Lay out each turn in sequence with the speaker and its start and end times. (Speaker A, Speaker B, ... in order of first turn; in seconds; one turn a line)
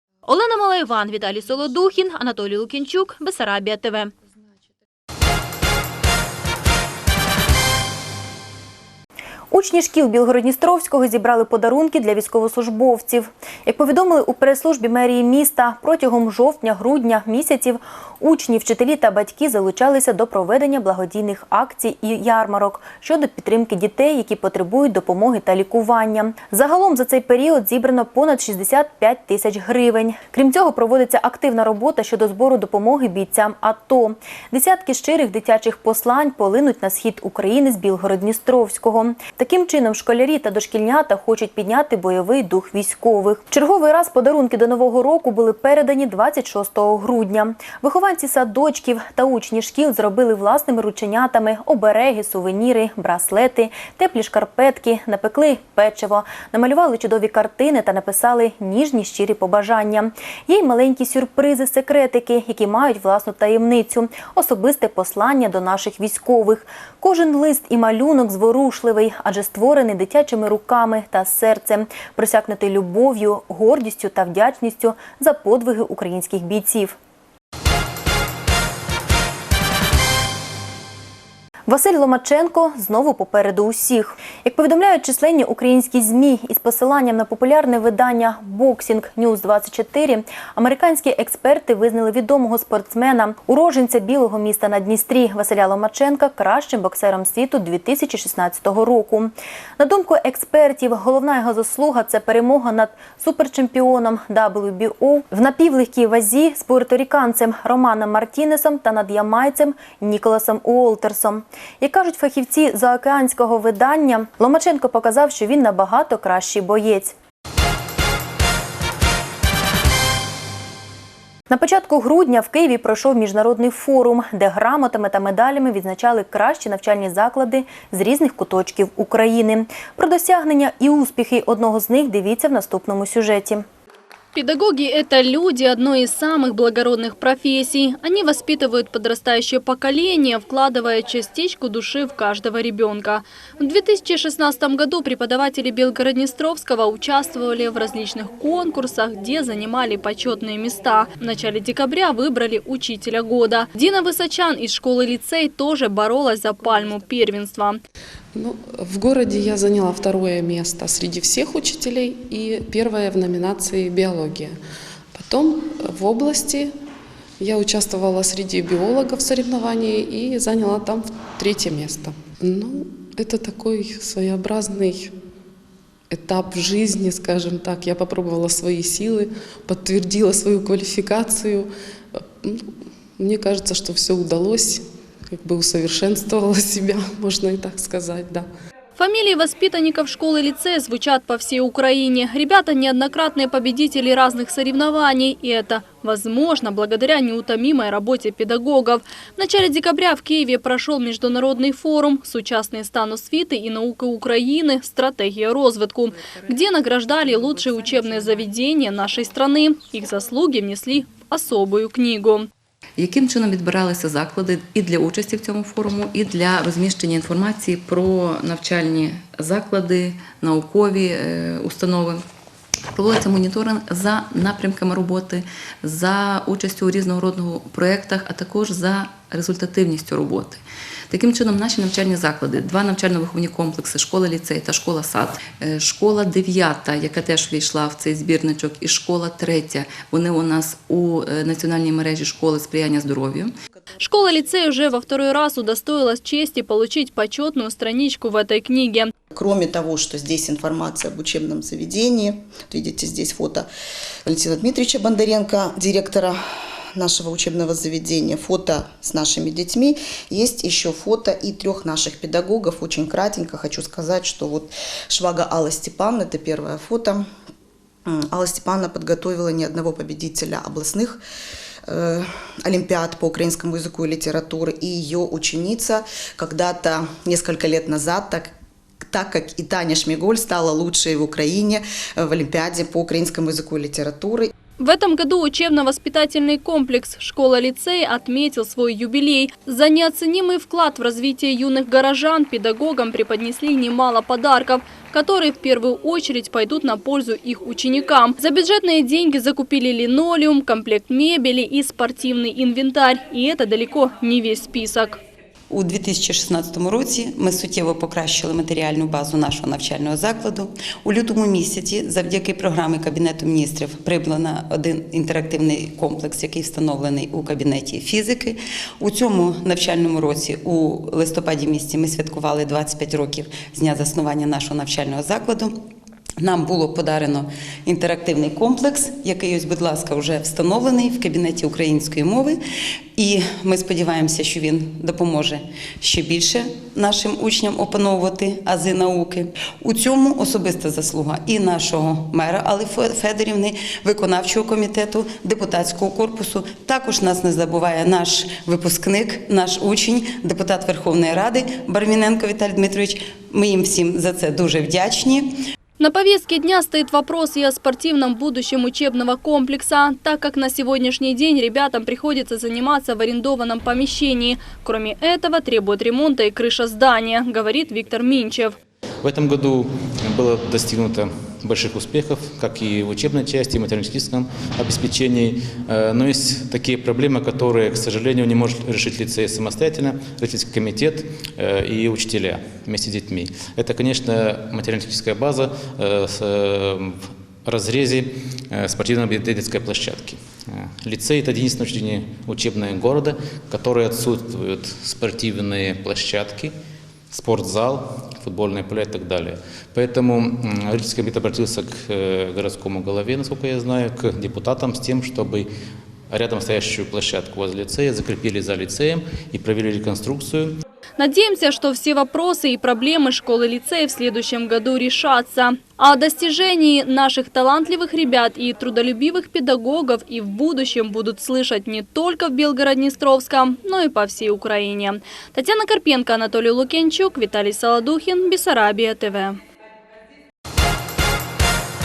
Speaker A: 0.3-4.1
Speaker B: 9.5-77.0
Speaker B: 81.7-117.1
Speaker B: 121.5-133.7
Speaker C: 134.3-157.8
Speaker D: 158.3-164.6
Speaker D: 165.1-166.7
Speaker D: 167.4-175.1
Speaker D: 176.1-188.5
Speaker C: 189.0-212.5
Speaker E: 213.0-222.2
Speaker E: 222.9-243.5
Speaker C: 244.0-249.1
Speaker F: 249.3-253.7
Speaker F: 254.2-256.4
Speaker F: 256.9-267.2
Speaker F: 268.1-271.2
Speaker F: 271.9-284.5
Speaker C: 284.8-305.2
Speaker D: 305.7-318.3
Speaker G: 305.7-325.7
Speaker D: 319.0-319.9
Speaker D: 320.4-325.6
Speaker D: 326.4-332.5
Speaker G: 326.5-332.5
Speaker D: 333.2-335.5
Speaker G: 333.2-339.4
Speaker D: 336.0-353.0
Speaker G: 340.1-355.4
Speaker D: 353.5-355.3
Speaker C: 356.0-368.7
Speaker H: 369.2-396.7
Speaker H: 397.3-405.7
Speaker H: 406.3-410.8
Speaker C: 411.2-429.6